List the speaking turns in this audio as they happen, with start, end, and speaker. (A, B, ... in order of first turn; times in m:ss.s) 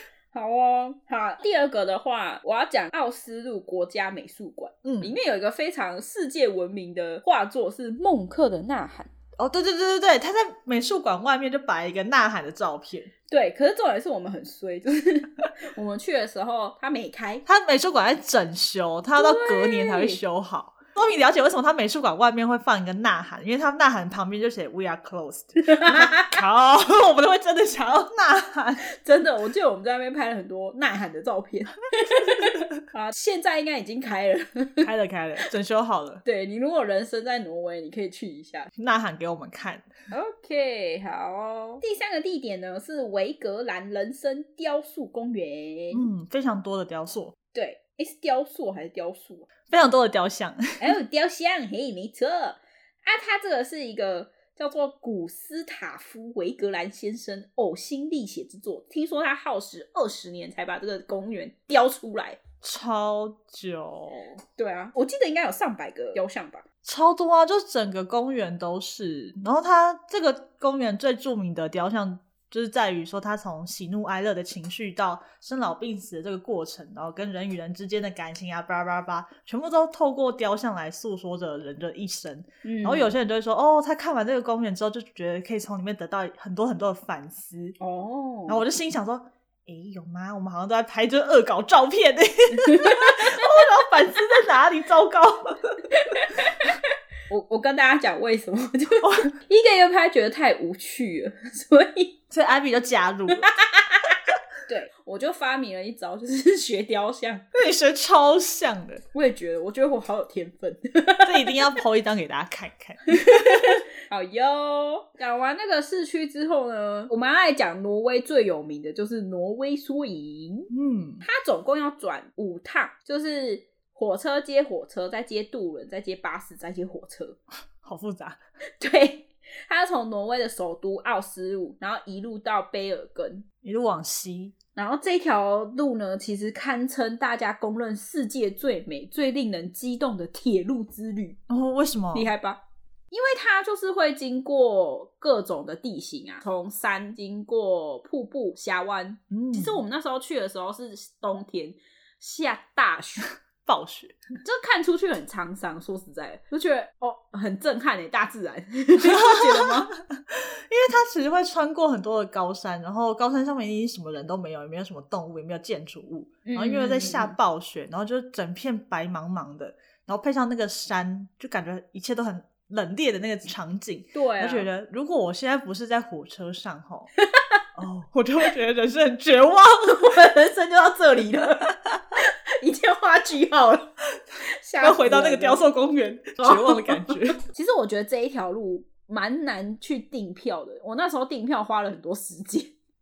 0:00.3-0:09.1 A
0:04.8-0:05.1 B
0:09.4-0:13.1 B
0:13.3-0:17.4 A
0:17.5-0:28.8 B
0:19.2-0:20.2 A
0:25.6-0:26.4 A
0:28.9-0:34.9 A
0:32.1-0:32.6 B
0:34.8-0:36.2 B
0:36.2-0:38.7 A
0:38.8-0:39.9 B
0:40.1-0:46.0 A
0:45.9-0:47.4 B
0:47.5-0:49.5 A
0:49.7-0:50.8 B
0:50.8-1:02.4 A
1:02.6-1:04.4 B
1:04.6-1:06.6 A
1:06.8-1:27.8 B
1:22.6-1:23.1 A
1:27.8-1:28.6 A
1:28.5-1:35.8 B
1:32.5-1:33.5 A
1:35.9-1:36.8 A
1:37.3-1:42.2 A
1:39.0-1:39.3 B
1:42.3-1:43.5 B
1:43.6-1:44.2 A
1:44.7-1:47.4 A
1:47.5-1:49.0 B
1:49.1-1:51.6 A
1:51.2-1:53.8 B
1:53.1-2:00.7 A
2:00.7-2:01.2 B
2:01.2-2:07.4 A
2:07.8-2:08.4 B
2:08.8-2:13.5 A
2:13.6-2:14.5 B
2:14.8-2:21.4 A
2:21.5-2:22.3 B
2:22.1-2:22.6 A
2:23.1-2:33.3 A
2:29.3-2:29.8 B
2:33.6-2:34.2 B
2:34.4-2:39.9 A
2:39.0-2:57.1 B
2:46.4-2:47.4 A
2:54.1-2:54.7 A
2:57.3-2:57.6 A
2:57.8-3:00.1 B
2:59.9-3:03.9 A
3:04.4-3:05.6 A
3:04.8-3:07.4 B
3:06.4-3:12.8 A